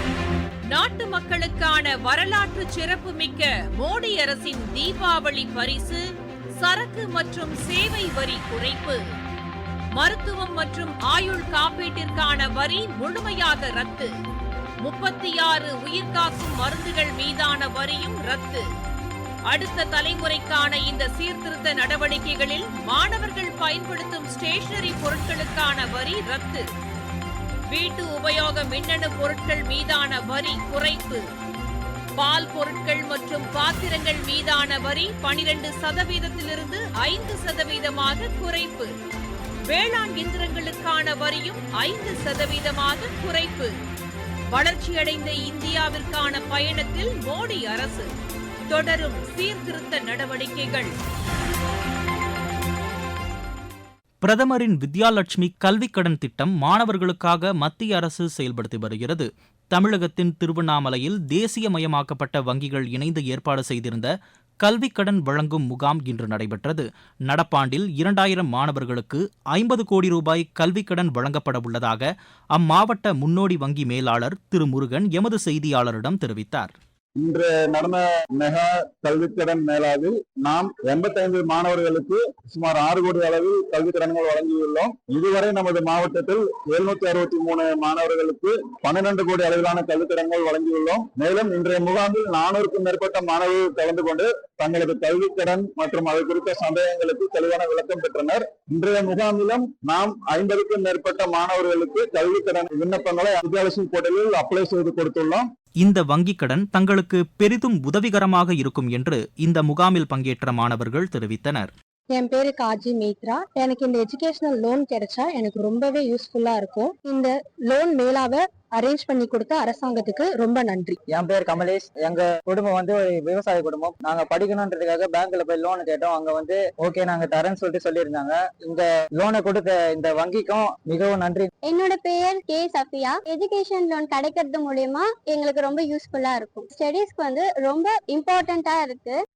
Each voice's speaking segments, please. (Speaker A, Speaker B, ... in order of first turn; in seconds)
Speaker A: 0.7-6.0, 6.6-9.0, 9.9-14.1, 14.8-18.7, 19.5-26.7, 27.7-31.2, 32.2-38.9, 39.7-43.7, 44.5-48.1, 48.7-50.9
Speaker B: 54.2-76.7, 105.8-111.7
Speaker C: 77.2-105.5
Speaker D: 112.1-121.0
Speaker E: 121.1-131.5
Speaker F: 131.7-139.2